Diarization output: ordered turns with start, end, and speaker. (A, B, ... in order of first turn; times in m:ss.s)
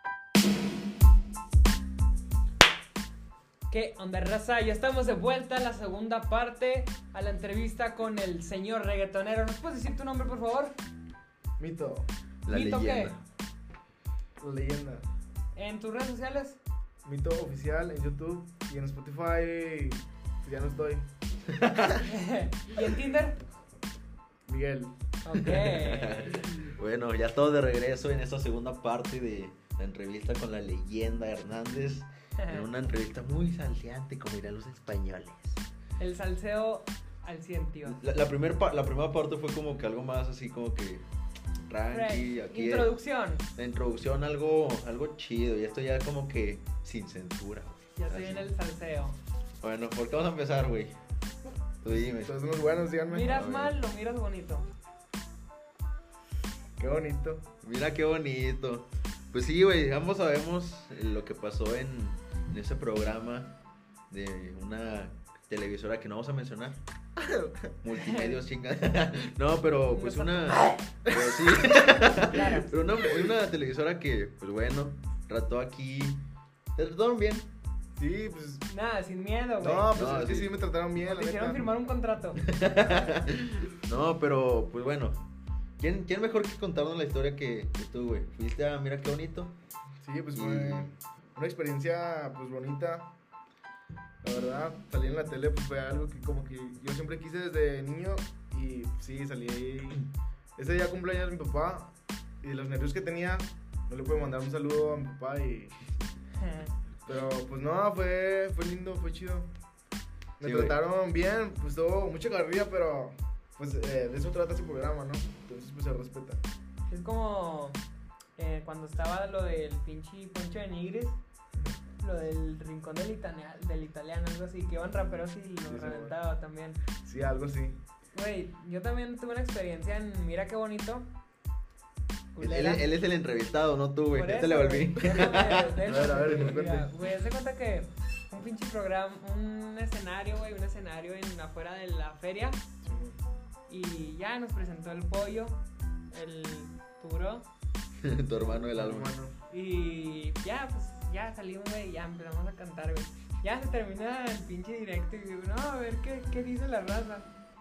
0:03.7-0:10.7 A
0:11.6-0:12.1 B
0:12.5-0:13.2 C
0:12.5-0:13.2 A
0:14.4-0:15.0 B
0:15.6-0:16.6 A
0:17.0-0:21.0 B
0:21.5-0:22.1 C
0:22.0-0:23.4 A
0:24.5-0:24.9 B
0:25.2-0:26.6 A
0:25.4-0:35.6 C
0:32.4-0:32.7 A
0:36.0-0:38.0 A
0:37.9-0:41.1 C
0:41.6-0:42.9 C
0:41.9-0:43.4 A
0:43.6-0:48.5 C
0:48.0-0:49.2 A
0:49.6-0:51.0 C
0:51.8-0:52.3 C
0:51.9-0:53.4 B
0:53.1-0:54.7 A
0:53.3-0:53.8 C
0:56.8-0:57.4 B
0:57.6-1:03.5 C
1:04.1-1:06.8 C
1:07.2-1:07.7 B
1:07.8-1:16.2 C
1:07.9-1:08.4 A
1:09.9-1:10.8 A
1:11.0-1:11.9 B
1:12.0-1:12.7 A
1:16.8-1:17.5 C
1:18.0-1:18.6 B
1:18.7-1:19.9 A
1:19.6-1:21.7 B
1:19.9-1:20.5 C
1:21.0-1:22.5 A
1:22.4-1:25.2 C
1:22.8-1:23.2 B
1:25.8-1:29.5 C
1:30.0-1:33.1 B
1:30.4-1:30.9 C
1:34.2-1:40.1 B
1:40.6-1:41.9 B
1:42.4-1:45.8 B
1:46.4-1:46.7 A
1:47.1-1:49.5 B
1:50.4-1:56.4 B
1:50.4-1:50.8 C
1:56.9-1:57.8 A
1:58.4-2:01.2 A
2:02.0-2:06.8 A
2:05.7-2:06.2 B
2:07.0-2:07.8 B
2:08.1-2:11.1 A
2:12.3-2:12.9 A
2:12.4-2:16.6 C
2:14.1-2:22.6 A
2:15.9-2:16.9 B
2:22.8-2:23.2 B
2:23.7-2:25.6 A
2:26.1-2:27.4 A
2:28.0-2:29.1 C
2:28.6-2:29.3 B
2:29.5-2:37.3 A